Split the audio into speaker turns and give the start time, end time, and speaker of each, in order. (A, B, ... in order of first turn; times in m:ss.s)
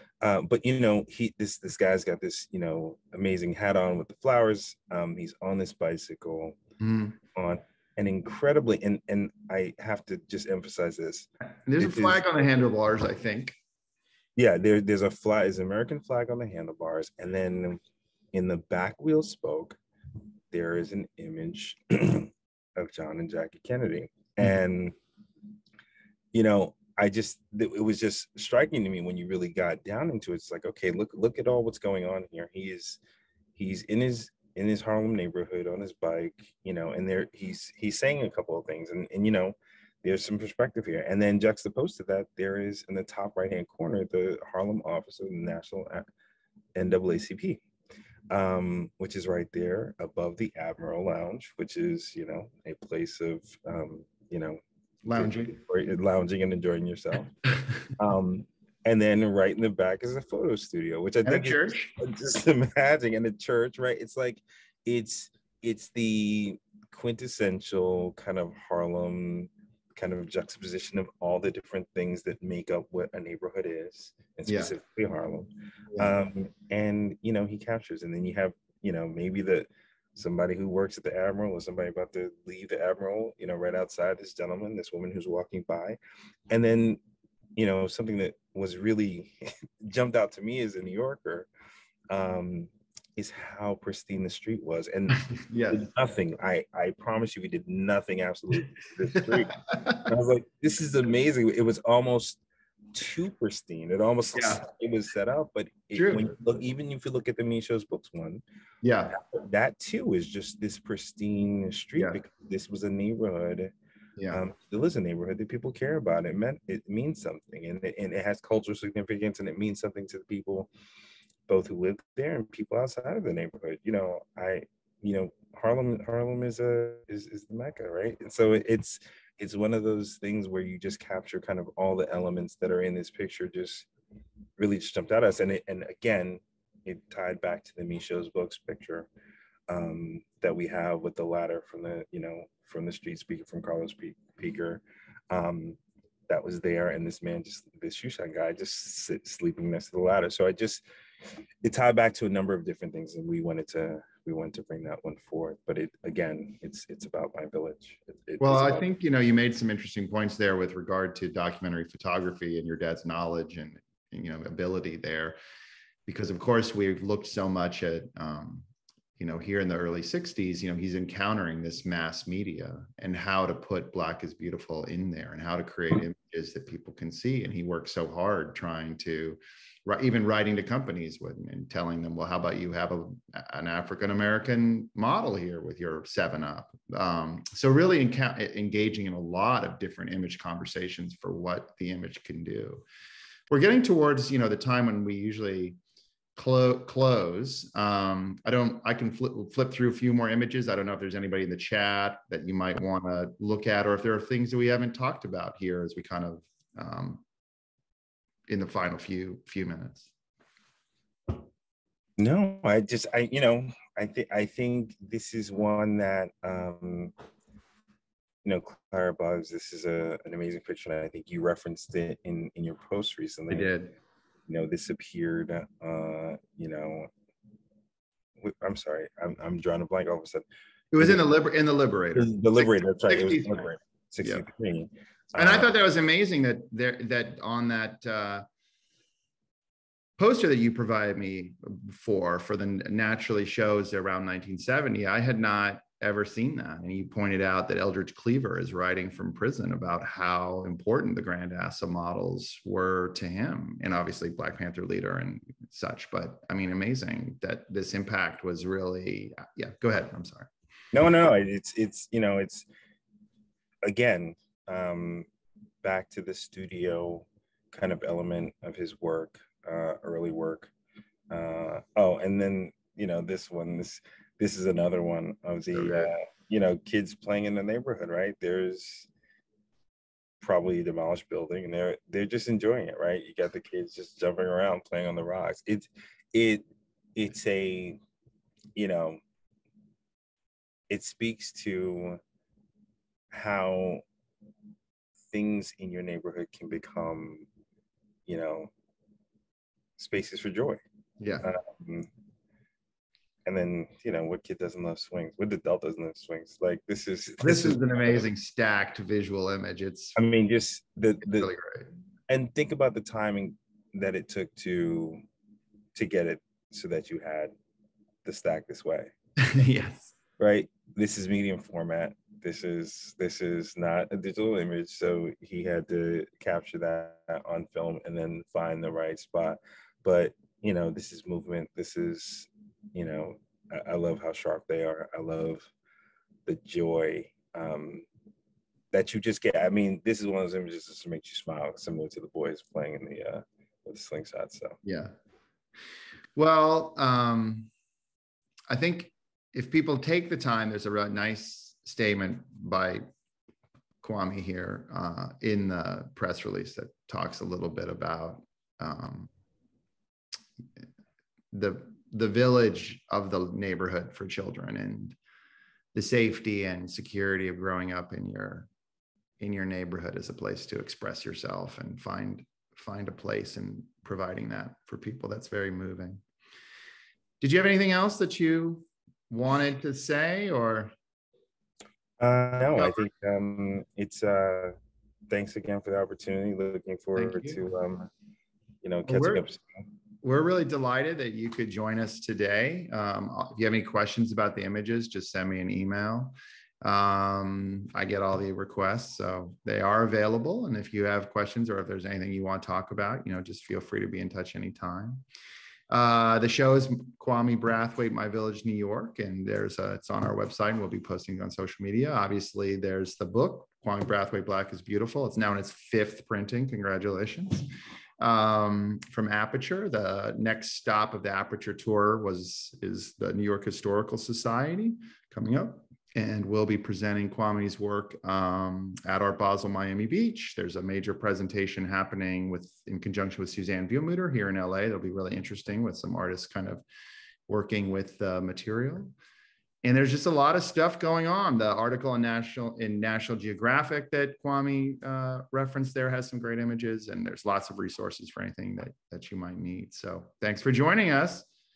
0:00.2-0:06.6 A
0:06.8-0:07.2 B
0:07.3-0:11.3 A
0:11.6-0:13.6 B
0:11.8-0:12.2 A
0:14.4-0:17.8 A
0:18.3-0:19.8 A
0:20.5-0:25.0 A
0:26.3-0:33.0 A
0:33.5-0:46.0 A
0:46.8-0:47.6 A
0:48.3-0:54.6 A
0:55.0-0:55.5 B
0:55.1-0:57.3 A
0:58.0-1:26.0 A
1:01.2-1:01.9 B
1:14.5-1:14.7 B
1:26.5-1:27.0 A
1:27.6-1:31.5 A
1:32.1-1:42.4 A
1:35.2-1:35.8 B
1:39.1-1:40.1 B
1:42.9-1:48.4 A
1:44.3-1:44.6 B
1:45.9-1:46.3 B
1:48.8-1:49.2 B
1:49.1-1:53.7 A
1:54.2-1:54.4 B
1:54.3-2:00.7 A
2:01.5-2:13.9 A
2:14.6-2:19.1 A
2:19.7-2:25.8 A
2:26.3-2:30.8 A
2:31.6-2:38.8 A
2:38.4-2:45.4 B
2:46.1-2:48.6 B
2:49.2-3:12.8 B
3:13.5-3:15.8 B
3:16.4-3:27.2 B
3:28.5-3:30.1 B
3:32.2-3:37.1 A
3:38.4-3:43.7 A
3:43.5-3:43.9 B
3:44.5-3:47.1 A
3:48.4-3:50.4 A
3:50.9-3:53.5 B
3:52.1-3:55.7 A
3:55.4-3:58.4 B
4:00.2-4:20.5 B
4:20.9-4:22.6 A
4:23.8-4:25.3 A
4:25.8-4:30.7 A
4:31.3-4:39.1 A
4:35.7-4:36.1 B
4:40.4-4:48.0 A
4:48.8-4:49.2 A
4:50.9-4:52.2 A
4:53.3-4:54.0 A
4:55.3-4:57.5 A
4:58.3-4:58.7 A
5:00.0-5:00.8 A
5:01.2-5:01.5 B
5:01.4-5:02.1 A
5:03.4-5:08.2 A
5:07.4-5:10.2 B
5:10.2-5:11.5 A
5:11.3-5:11.9 B
5:12.3-5:15.2 A
5:15.9-5:17.5 A
5:18.2-5:19.1 A
5:19.4-5:20.1 B
5:20.4-5:35.7 A
5:36.4-5:38.0 A
5:38.9-5:44.8 A
5:44.8-5:45.1 B
5:46.4-5:47.7 B
5:48.7-5:53.0 B
5:54.0-5:59.3 B
6:01.5-6:05.2 B
6:05.9-6:08.7 B
6:09.4-6:16.2 B
6:17.4-6:20.9 B
6:22.2-6:24.7 A
6:25.3-6:28.1 A
6:27.2-6:27.6 B
6:28.8-6:29.6 A
6:29.1-6:29.4 B
6:30.2-6:45.2 B
6:45.9-6:57.7 B
6:58.2-7:16.8 B
7:17.5-7:19.1 B
7:19.8-7:31.5 B